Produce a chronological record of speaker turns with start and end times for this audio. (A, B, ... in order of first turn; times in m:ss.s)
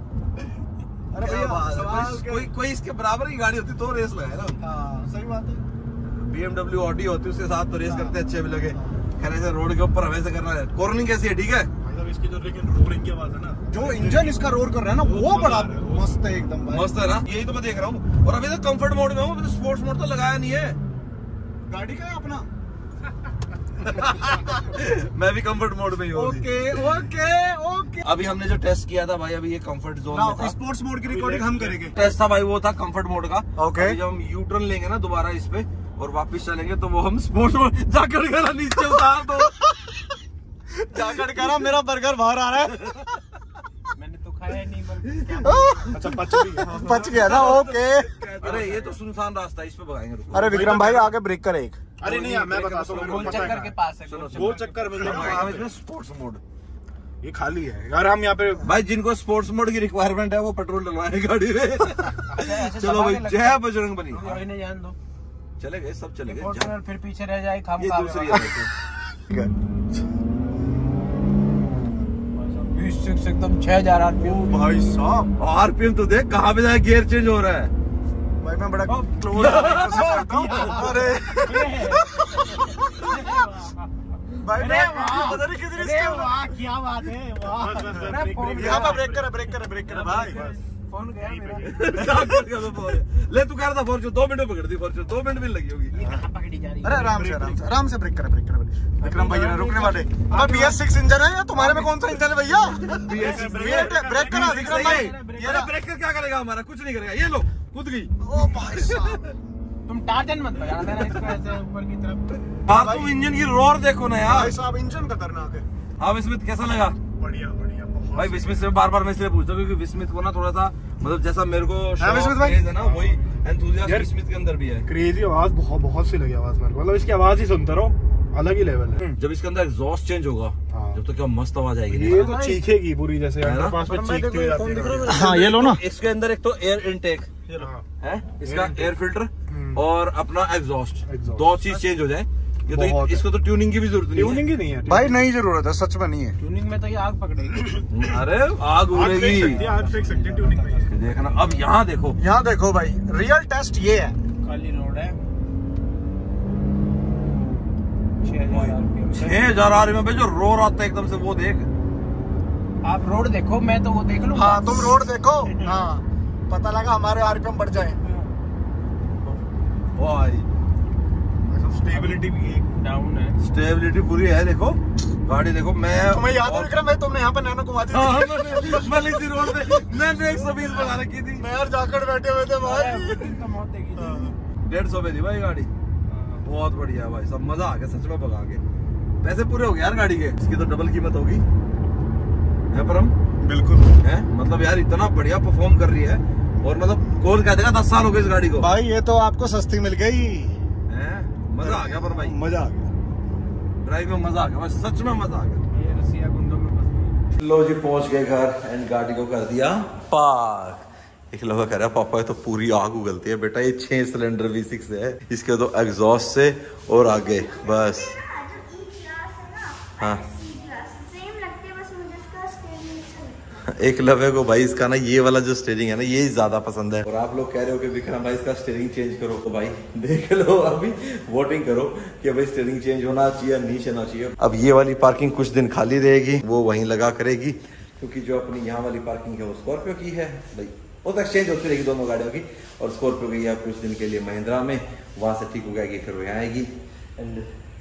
0:01.1-0:02.5 A
0:01.2-0:04.6 B
0:04.6-0:05.6 A
0:06.2-0:11.7 B
0:07.8-0:08.2 A
0:08.7-0:09.0 A
0:11.8-0:14.4 C
0:13.7-0:16.9 A
0:15.0-0:16.1 C
0:16.7-0:20.8 B
0:21.7-0:22.5 A
0:23.8-0:26.5 B
0:26.1-0:28.1 A
0:28.0-0:30.5 B
0:30.1-0:32.0 A
0:31.1-0:31.9 C
0:31.9-0:39.7 B
0:33.6-0:34.0 A
0:40.7-0:43.0 A
0:42.8-0:43.2 B
0:43.9-0:45.8 D
0:45.2-0:45.8 B
0:45.4-0:48.3 A
0:45.8-0:46.8 C
0:46.3-0:47.8 B
0:48.4-0:51.1 B
0:48.5-0:48.9 D
0:50.3-0:51.8 A
0:50.5-0:51.0 C
0:52.0-0:55.6 C
0:52.0-0:55.5 D
0:53.0-0:53.2 B
0:53.3-0:53.6 A
0:54.0-0:56.4 B
0:55.0-0:55.6 A
0:57.2-0:58.6 C
0:58.6-1:04.4 B
1:02.3-1:05.0 D
1:05.6-1:06.7 B
1:06.2-1:08.7 D
1:07.8-1:08.7 B
1:12.3-1:14.7 D
1:14.2-1:15.3 A
1:15.4-1:17.7 B
1:18.4-1:22.0 A
1:18.9-1:23.9 D
1:19.3-1:21.7 B
1:24.4-1:26.4 A
1:24.5-1:32.2 D
1:27.5-1:29.0 C
1:27.8-1:30.5 A
1:31.2-1:32.2 C
1:31.6-1:36.2 B
1:35.9-1:37.2 D
1:36.8-1:45.7 A
1:37.2-1:37.7 C
1:39.0-1:40.8 D
1:41.6-1:42.0 D
1:42.8-1:49.3 B
1:43.1-1:44.4 C
1:43.1-1:45.7 D
1:48.2-1:49.2 A
1:49.8-1:52.5 D
1:50.9-1:51.2 B
1:52.6-1:54.5 B
1:52.7-1:53.1 A
1:54.2-1:55.6 A
1:56.0-1:57.0 B
1:57.2-1:58.7 C
1:58.1-2:04.9 B
2:02.0-2:03.0 A
2:03.8-2:04.1 C
2:04.8-2:09.2 C
2:09.1-2:12.4 B
2:10.7-2:11.0 C
2:11.9-2:15.1 C
2:12.2-2:12.6 D
2:13.4-2:24.5 B
2:15.0-2:15.8 A
2:17.5-2:17.8 C
2:18.4-2:18.8 C
2:19.5-2:19.8 C
2:21.1-2:21.5 C
2:22.7-2:23.2 A
2:24.1-2:25.2 C
2:24.8-2:26.4 A
2:26.4-2:27.9 D
2:27.9-2:29.7 B
2:28.9-2:31.0 C
2:29.3-2:30.9 D
2:30.9-2:32.2 B
2:32.2-2:34.2 A
2:34.4-2:35.2 D
2:38.2-2:39.6 D
2:38.5-2:41.7 B
2:42.8-2:45.8 D
2:44.3-2:48.0 A
2:50.0-2:50.5 B
2:51.7-2:52.6 A
2:52.7-2:53.4 D
2:53.4-2:56.7 B
2:56.0-2:59.9 A
2:57.9-3:01.5 B
3:01.4-3:03.0 A
3:02.6-3:04.4 D
3:03.0-3:03.3 B
3:04.0-3:04.4 A
3:04.6-3:05.7 B
3:06.4-3:08.6 B
3:09.2-3:11.4 B
3:12.7-3:13.1 B
3:13.4-3:13.9 A
3:14.0-3:18.7 B
3:18.6-3:20.6 A
3:20.9-3:22.4 B
3:21.6-3:22.9 A
3:23.8-3:25.6 B
3:25.7-3:27.2 D
3:27.4-3:38.2 B
3:38.2-3:43.4 E
3:39.9-3:40.3 B
3:43.6-4:07.5 B